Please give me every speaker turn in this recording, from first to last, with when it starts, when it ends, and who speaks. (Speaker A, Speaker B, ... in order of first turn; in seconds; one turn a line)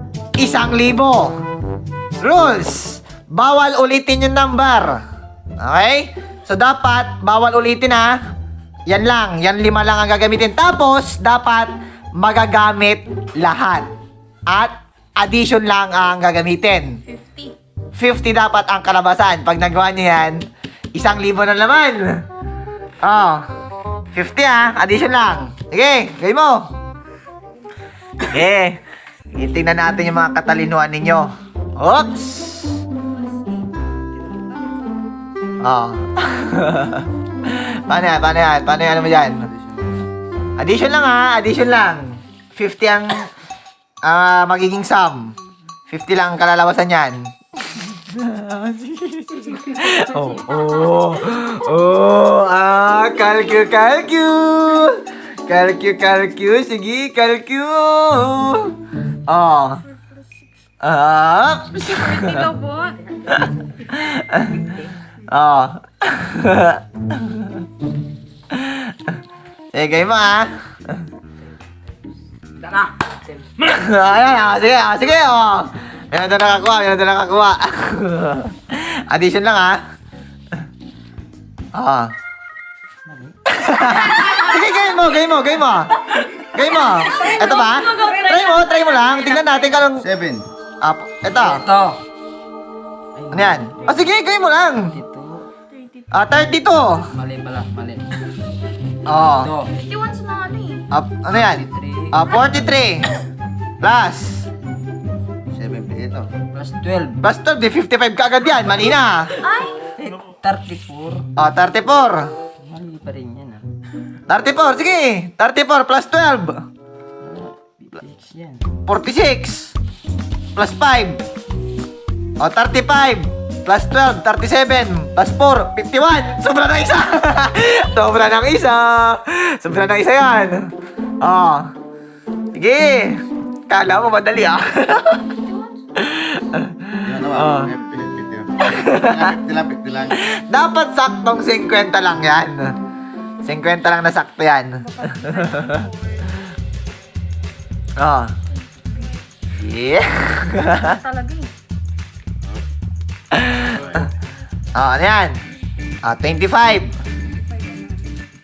Speaker A: 0.4-1.3
Speaker A: 2.2-5.0
Speaker A: 5.6-8.2
Speaker A: 8.9-13.9
Speaker A: 14.5-17.0
Speaker B: 17.1-17.5
Speaker A: 17.9-22.2
Speaker A: 23.0-23.4
Speaker A: 24.1-26.7
Speaker A: 28.2-28.8
Speaker A: 29.3-32.8
Speaker A: 35.6-39.5
Speaker C: 39.5-39.9
Speaker A: 40.6-43.3
Speaker A: 44.0-45.3
Speaker A: 45.9-58.7
Speaker A: 59.3-59.8
Speaker A: 60.8-62.5
Speaker B: 61.8-63.0
Speaker A: 63.3-64.6
Speaker A: 65.3-67.6
Speaker A: 68.5-69.0
Speaker A: 69.7-70.5
Speaker D: 72.5-72.9
Speaker A: 73.6-79.8
Speaker A: 81.7-82.1
Speaker D: 83.0-83.3
Speaker A: 83.5-90.1
Speaker B: 87.1-89.8
Speaker C: 90.0-90.5
Speaker A: 90.8-91.6
Speaker D: 91.4-92.0
Speaker D: 93.1-94.0
Speaker A: 93.3-95.0
Speaker D: 94.8-95.5
Speaker B: 95.8-96.1
Speaker A: 96.1-97.1
Speaker D: 97.1-98.1
Speaker A: 99.0-99.5
Speaker D: 99.3-99.7
Speaker B: 99.7-100.9
Speaker A: 100.9-103.1
Speaker D: 101.3-102.3
Speaker A: 103.8-104.5
Speaker C: 105.5-106.3
Speaker D: 106.5-107.2
Speaker A: 107.2-109.3
Speaker B: 109.3-109.8
Speaker D: 109.9-111.3
Speaker A: 111.3-112.3
Speaker D: 112.6-113.7
Speaker A: 114.3-116.6
Speaker D: 117.2-118.7
Speaker A: 118.8-119.7
Speaker A: 120.5-121.2
Speaker A: 122.4-130.7
Speaker A: 131.2-131.7
Speaker A: 132.5-135.3
Speaker B: 135.3-135.8
Speaker A: 135.9-137.7
Speaker C: 137.0-140.2
Speaker A: 138.6-139.2
Speaker A: 140.2-142.7
Speaker A: 143.4-145.9
Speaker B: 145.8-146.3
Speaker A: 148.0-148.3
Speaker A: 149.5-151.0
Speaker B: 150.9-151.5
Speaker A: 153.3-153.7
Speaker C: 153.7-154.0
Speaker A: 154.7-155.4
Speaker A: 156.0-156.9
Speaker B: 157.3-158.1